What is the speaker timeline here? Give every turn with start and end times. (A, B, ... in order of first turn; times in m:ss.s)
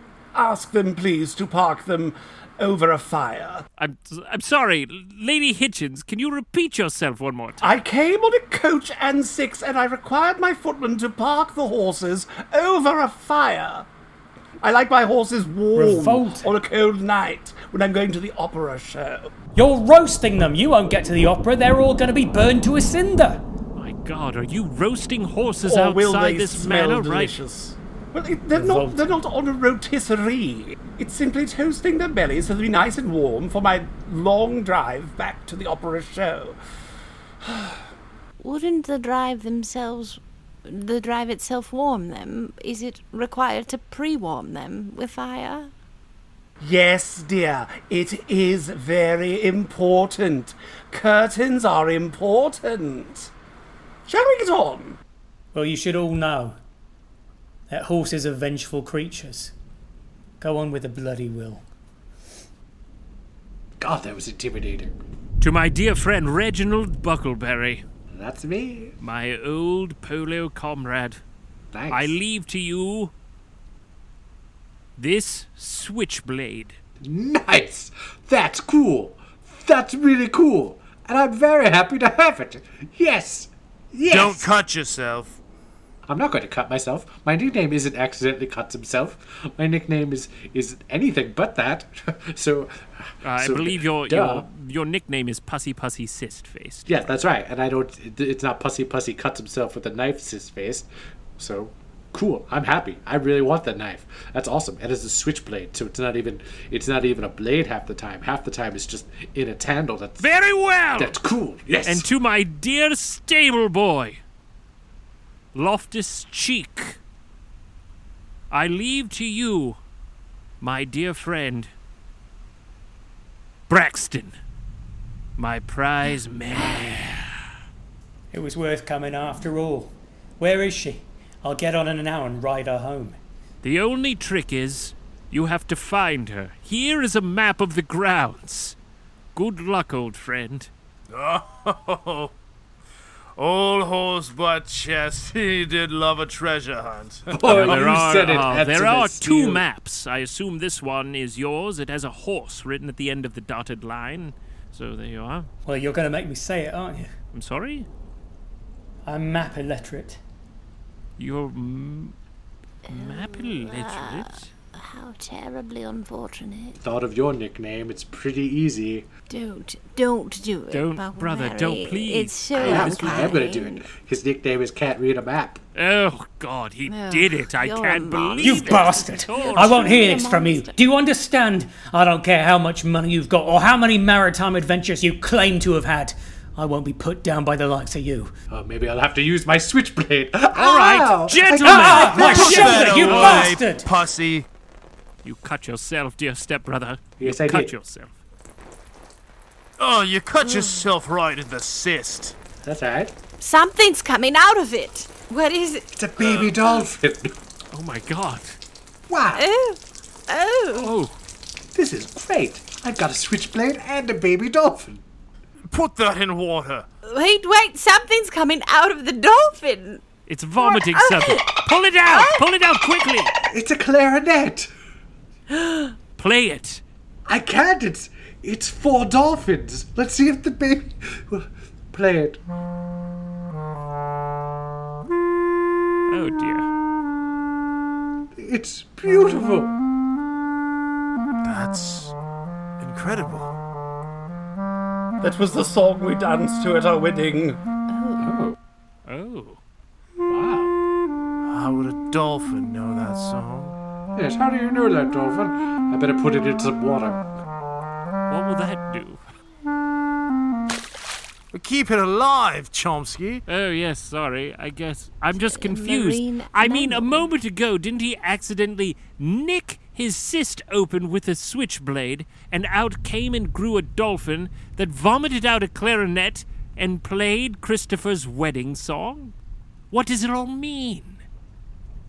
0:00.4-0:03.6 A
0:03.8-0:07.8 B
0:07.6-0:13.9 A
0:14.6-0:19.3 A
0:15.7-0:16.5 C
0:19.6-0:23.4 C
0:23.8-0:27.4 B
0:25.6-0:36.6 A
0:28.5-0:29.1 C
0:37.4-0:37.8 A
0:38.4-0:45.7 D
0:46.6-0:53.3 A
0:54.1-0:55.0 A
0:55.5-0:56.6 C
0:57.7-0:59.5 C
1:00.4-1:01.6 C
1:03.8-1:05.0 E
1:05.4-1:07.8 B
1:08.1-1:09.0 E
1:09.0-1:11.2 B
1:11.7-1:12.2 E
1:11.9-1:13.1 B
1:15.0-1:16.8 B
1:17.0-1:24.5 E
1:24.1-1:25.4 F
1:26.1-1:34.4 E
1:33.2-1:37.2 B
1:36.9-1:40.9 E
1:41.4-1:50.3 E
1:50.2-1:51.2 B
1:51.0-1:52.1 E
1:51.8-1:54.2 B
1:55.5-1:57.0 B
1:58.5-1:59.8 B
2:00.6-2:01.7 B
2:03.7-2:04.3 B
2:05.4-2:07.4 B
2:08.3-2:13.2 C
2:13.6-2:18.8 B
2:19.4-2:20.7 B
2:21.1-2:22.3 F
2:23.4-2:27.7 F
2:27.3-2:29.6 E
2:27.4-2:35.5 B
2:35.7-2:37.1 C
2:37.3-2:37.9 B
2:39.1-2:40.2 C
2:41.2-2:42.2 B
2:42.9-2:46.8 D
2:42.9-2:44.5 B
2:46.8-2:49.1 E
2:49.3-2:53.9 D
2:50.7-2:53.4 B
2:52.6-2:55.6 E
2:55.8-3:00.0 B
2:56.9-3:00.8 D
2:58.4-3:08.3 C
3:08.5-3:13.1 E
3:10.6-3:13.4 B
3:11.6-3:13.9 C
3:12.1-3:14.5 F
3:15.2-3:18.1 B
3:17.2-3:17.7 E
3:19.8-3:22.4 F
3:20.4-3:20.8 D
3:22.6-3:23.2 E
3:23.4-3:25.9 D
3:26.0-3:27.4 E
3:27.7-3:28.6 B
3:29.1-3:29.5 E
3:29.3-3:30.9 D
3:30.7-3:31.1 B
3:31.8-3:35.0 E
3:35.6-3:36.9 F
3:37.0-3:40.0 D
3:40.3-3:43.3 B
3:40.6-3:42.4 D
3:43.5-3:44.7 E
3:45.5-3:45.9 D
3:46.2-3:46.8 B
3:47.3-3:52.4 E
3:56.1-3:56.7 B
3:58.4-3:59.7 E
4:01.4-4:02.1 F
4:02.8-4:03.6 F
4:05.2-4:07.6 A
4:07.9-4:08.3 D
4:08.2-4:08.6 E
4:09.1-4:09.6 B
4:10.3-4:10.7 E
4:11.4-4:13.8 F
4:14.2-4:17.2 E
4:18.3-4:19.2 B
4:21.5-4:23.4 F
4:23.5-4:39.3 B
4:25.4-4:27.3 D
4:39.9-4:41.2 B